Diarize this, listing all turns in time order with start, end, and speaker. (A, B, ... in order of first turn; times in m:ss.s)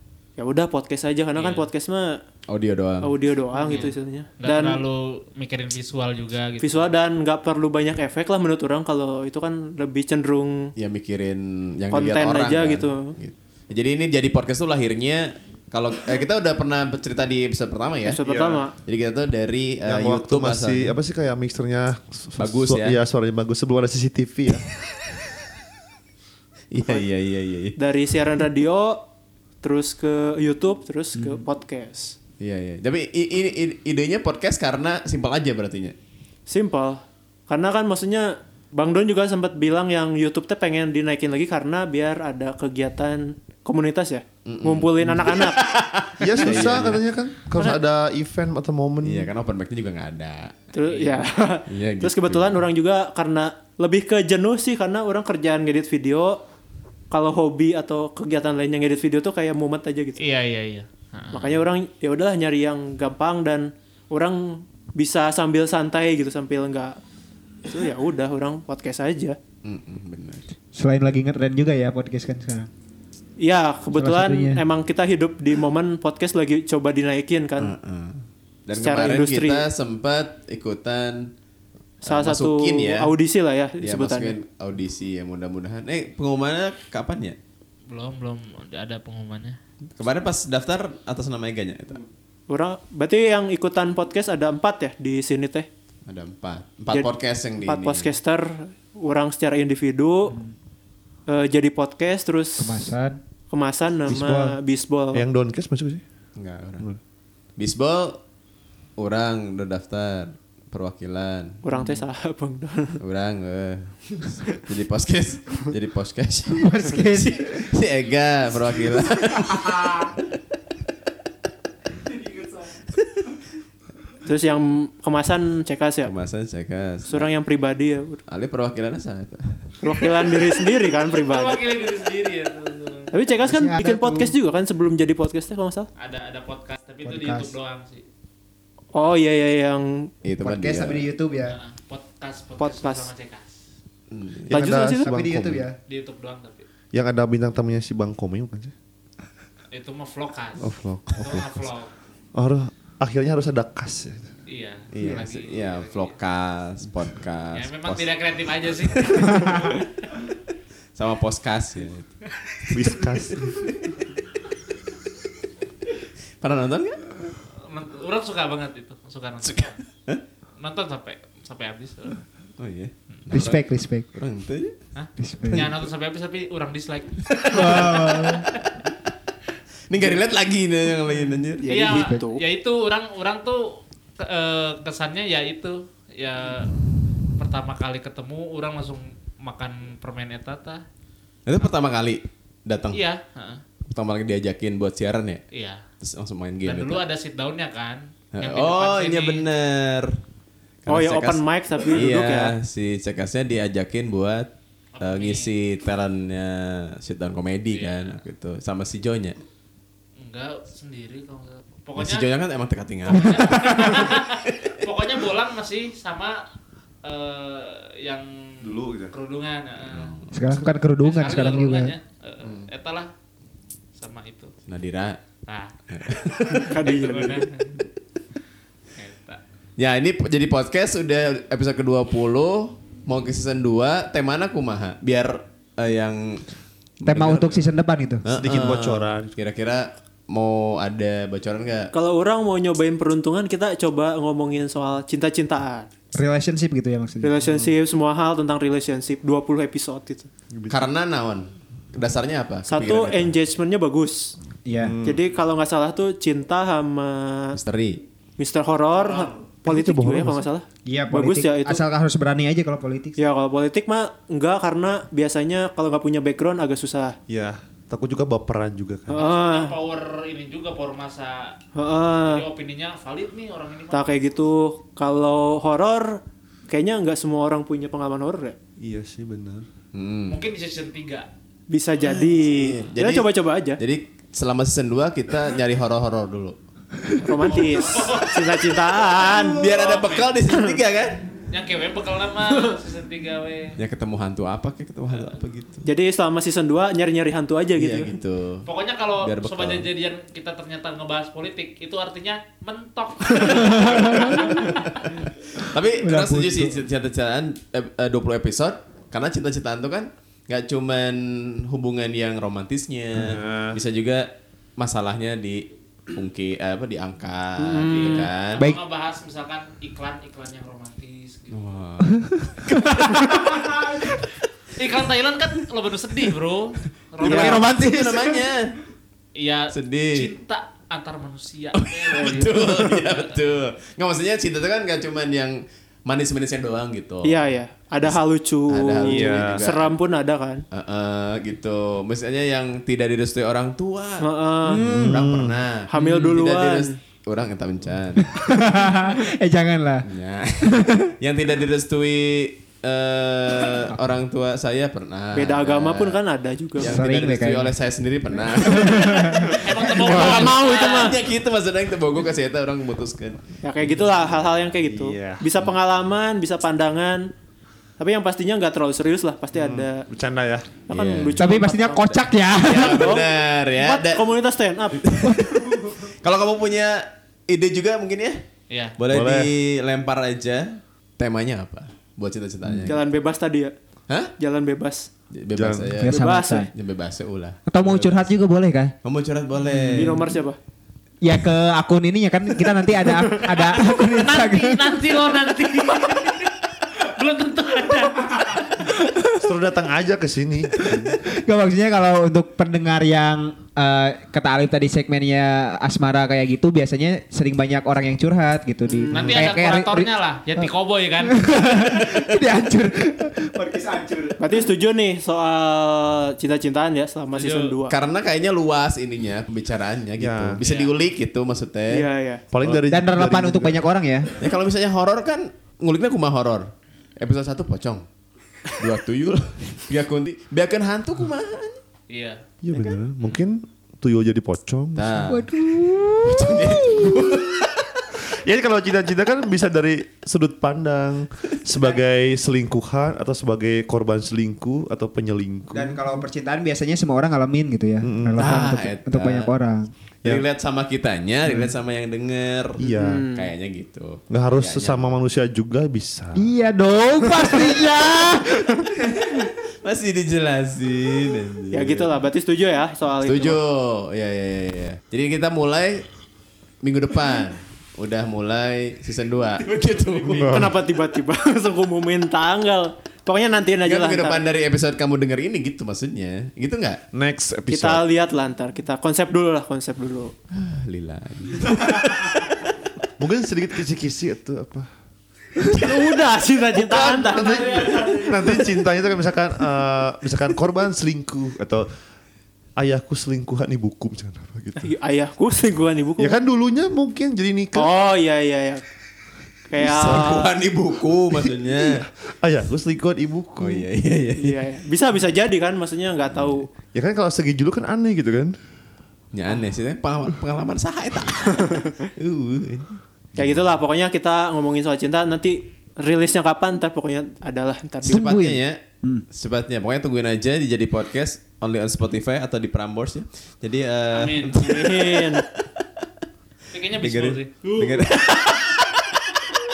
0:00.4-0:02.2 A
0:01.3-0:01.7 B
0:02.5-0:03.1 C
0:03.0-0:04.8 A
0:03.6-0:06.9 B
0:06.6-0:10.7 A
0:10.8-0:18.2 C
0:11.9-0:13.1 A
0:18.0-0:18.7 A
0:18.2-0:18.6 D
0:18.8-0:21.0 C
0:19.8-0:24.6 D
0:22.4-0:23.0 C
0:26.7-0:27.8 C
0:27.8-0:29.0 A
0:29.6-0:32.2 A
0:32.4-0:35.9 C
0:36.5-0:45.6 A
0:44.4-0:47.0 C
0:46.2-0:49.3 D
0:47.5-0:47.8 A
0:49.0-0:50.7 C
0:50.7-0:56.4 A
0:51.7-0:52.6 C
0:57.1-1:00.2 A
1:00.2-1:01.5 B
1:01.3-1:07.0 A
1:07.6-1:09.4 A
1:09.6-1:10.4 C
1:10.7-1:12.7 E
1:13.4-1:17.7 A
1:13.9-1:14.6 E
1:17.6-1:21.3 C
1:18.7-1:19.6 A
1:22.0-1:24.4 A
1:22.0-1:23.1 C
1:23.8-1:27.4 C
1:27.9-1:29.6 B
1:30.0-1:32.0 C
1:32.5-1:35.7 A
1:36.1-1:38.1 C
1:36.9-1:40.4 A
1:41.3-1:42.9 A
1:42.6-1:43.2 E
1:43.5-1:45.2 A
1:44.1-1:44.6 D
1:45.1-1:46.0 D
1:46.4-1:46.9 C
1:47.6-1:48.2 C
1:49.0-1:51.6 C
1:51.6-1:53.0 A
1:53.0-2:00.0 C
1:56.5-1:57.6 E
1:59.5-1:59.8 E
2:04.2-2:06.1 A
2:06.0-2:07.3 C
2:07.1-2:08.2 A
2:08.3-2:10.2 C
2:09.8-2:11.6 A
2:11.1-2:13.1 B
2:13.1-2:15.9 A
2:13.4-2:14.3 E
2:16.0-2:18.0 B
2:17.0-2:17.5 E
2:18.9-2:20.1 A
2:20.2-2:21.0 C
2:20.4-2:21.6 E
2:21.4-2:23.5 B
2:22.6-2:23.1 A
2:24.1-2:24.5 C
2:24.5-2:25.7 D
2:24.5-2:25.1 A
2:24.9-2:25.8 E
2:25.8-2:26.6 B
2:26.9-2:28.7 D
2:29.7-2:31.9 B
2:30.6-2:31.6 D
2:32.3-2:34.2 D
2:34.5-2:36.1 B
2:34.9-2:38.1 C
2:37.5-2:39.8 B
2:38.9-2:39.8 C
2:41.0-2:44.0 C
2:42.7-2:43.6 D
2:46.4-2:47.2 C
2:47.6-2:49.8 B
2:49.4-2:50.2 C
2:50.6-2:52.2 B
2:52.6-2:54.8 C
2:53.3-2:54.1 E
2:55.0-2:58.6 B
2:55.2-2:55.7 E
2:57.3-2:58.0 C
2:57.5-2:58.5 E
2:59.9-3:01.7 C
3:01.6-3:02.4 A
3:01.7-3:06.7 B
3:01.9-3:02.2 E
3:07.4-3:10.8 B
3:11.4-3:13.0 C
3:12.9-3:13.6 B
3:13.9-3:15.4 C
3:15.5-3:15.8 B
3:16.0-3:17.0 C
3:16.6-3:19.4 B
3:18.3-3:20.2 C
3:20.8-3:21.4 C
3:20.9-3:22.5 A
3:21.9-3:29.4 C
3:25.0-3:25.5 B
3:27.7-3:28.2 B
3:30.2-3:32.3 B
3:32.0-3:34.8 C
3:33.1-3:36.4 B
3:37.0-3:40.2 B
3:38.6-3:39.1 D
3:39.9-3:40.3 C
3:40.3-3:41.9 E
3:41.0-3:43.1 B
3:44.0-3:44.5 B
3:44.7-3:45.2 C
3:45.4-3:45.7 B
3:45.9-3:46.7 C
3:46.3-3:47.8 B
3:46.6-3:47.5 A
3:48.9-3:49.4 B
3:49.8-3:56.5 C
3:57.0-3:57.7 C
3:57.0-3:58.2 E
3:58.2-4:01.9 C
3:58.3-3:59.3 D
4:01.9-4:05.9 A
4:06.1-4:07.3 E
4:07.2-4:10.3 A
4:07.4-4:07.7 D
4:10.5-4:10.8 D
4:10.7-4:13.3 C
4:12.7-4:14.3 A
4:14.6-4:15.0 E
4:14.8-4:15.2 D
4:15.0-4:17.6 A
4:17.5-4:18.0 C
4:18.4-4:21.8 A
4:19.6-4:20.4 D
4:20.8-4:23.2 E
4:23.2-4:27.2 A
4:27.3-4:29.2 D
4:29.1-4:29.8 A
4:29.1-4:31.6 B
4:31.7-4:32.4 A
4:32.2-4:34.1 B
4:33.9-4:38.6 A
4:38.8-4:39.6 D
4:39.9-4:40.4 C
4:40.3-4:41.3 B
4:41.7-4:43.8 A
4:42.0-4:46.6 C
4:47.2-4:49.6 A
4:47.4-4:48.7 B
4:49.2-4:51.2 C
4:49.6-4:50.4 B
4:51.5-4:53.8 B
4:53.8-4:55.8 C
4:55.1-4:55.4 B
4:55.8-4:58.1 A
4:57.8-4:58.6 C
4:58.6-5:05.1 B
4:59.2-4:59.9 C
5:03.6-5:04.4 E
5:04.2-5:18.6 C
5:06.0-5:06.8 E
5:13.1-5:13.8 D
5:17.6-5:18.3 A
5:17.9-5:21.6 B
5:21.5-5:23.5 C
5:22.8-5:23.6 E
5:24.8-5:27.7 B
5:27.2-5:28.8 C
5:27.2-5:28.5 E
5:29.3-5:33.4 B
5:29.7-5:30.3 C
5:31.7-5:37.4 C
5:37.2-5:40.6 A
5:38.7-5:39.9 C
5:39.0-5:39.6 D
5:40.7-5:48.3 C
5:44.2-5:44.8 A
5:44.7-5:45.2 E
5:44.8-5:45.6 D
5:45.9-5:47.0 A
5:48.2-5:50.1 E
5:50.0-5:56.2 C
5:50.6-5:51.1 E
5:55.3-5:57.0 A
5:56.8-6:04.7 C
5:56.8-5:57.7 E
5:58.6-5:59.6 E
5:59.4-6:01.1 B
6:00.0-6:01.1 A
6:03.6-6:07.3 A
6:04.9-6:05.4 D
6:08.0-6:10.1 A
6:09.5-6:10.7 D
6:10.9-6:15.0 A
6:10.9-6:11.4 C
6:11.4-6:13.2 E
6:12.6-6:14.2 C
6:15.0-6:18.4 C
6:15.2-6:15.6 E
6:18.7-6:19.0 B
6:19.0-6:23.0 C
6:19.1-6:19.5 D
6:22.8-6:23.7 A
6:24.4-6:25.1 A
6:25.3-6:28.3 C
6:25.5-6:25.9 D
6:25.9-6:26.7 E
6:26.1-6:26.7 A
6:27.7-6:28.9 E
6:29.0-6:30.3 C
6:29.6-6:30.2 E
6:29.9-6:30.6 A
6:31.2-6:35.0 E
6:33.6-6:38.9 B
6:39.4-6:41.2 D
6:40.9-6:50.7 E
6:48.9-6:49.4 A
6:49.1-6:51.9 B
6:51.2-6:54.4 E
6:54.4-6:58.0 A
6:57.3-6:57.8 B
6:57.9-7:02.1 C
7:00.2-7:00.6 D
7:00.6-7:00.9 B
7:01.9-7:02.4 A
7:02.5-7:03.8 D
7:02.9-7:04.3 E
7:04.4-7:06.7 C
7:07.2-7:08.0 C
7:08.7-7:11.8 C
7:12.1-7:12.4 B
7:12.6-7:15.4 D
7:12.7-7:13.0 C
7:15.0-7:15.5 C
7:15.3-7:17.1 E
7:16.2-7:18.0 C
7:18.3-7:26.2 D
7:25.7-7:29.9 E
7:28.0-7:28.6 D
7:28.4-7:29.5 C
7:30.2-7:35.2 C
7:32.8-7:33.2 D
7:32.8-7:33.5 A
7:34.3-7:36.4 D
7:36.3-7:39.4 E
7:39.3-7:42.1 C
7:41.7-7:43.6 A
7:43.2-7:46.1 C
7:46.8-7:50.7 C
7:50.3-7:50.7 D
7:50.5-7:54.4 A
7:53.8-7:57.0 C
7:57.1-7:58.0 D
7:57.7-8:00.3 A
8:00.5-8:02.6 C
8:03.2-8:04.9 D
8:05.6-8:08.5 A
8:06.7-8:11.9 D
8:07.4-8:08.2 B
8:12.8-8:14.9 D
8:14.8-8:16.3 A
8:16.2-8:17.9 D
8:17.7-8:18.8 A
8:19.7-8:20.5 A
8:19.8-8:22.1 C
8:19.9-8:20.4 D
8:21.8-8:23.9 D
8:23.6-8:24.6 C
8:24.4-8:26.7 A
8:26.9-8:28.5 D
8:29.3-8:33.0 C
8:33.4-8:38.4 A
8:38.0-8:38.8 C
8:38.1-8:39.2 E
8:39.3-8:45.8 C
8:44.1-8:44.7 B
8:44.6-8:45.4 A
8:46.7-8:47.7 B
8:47.0-8:49.4 C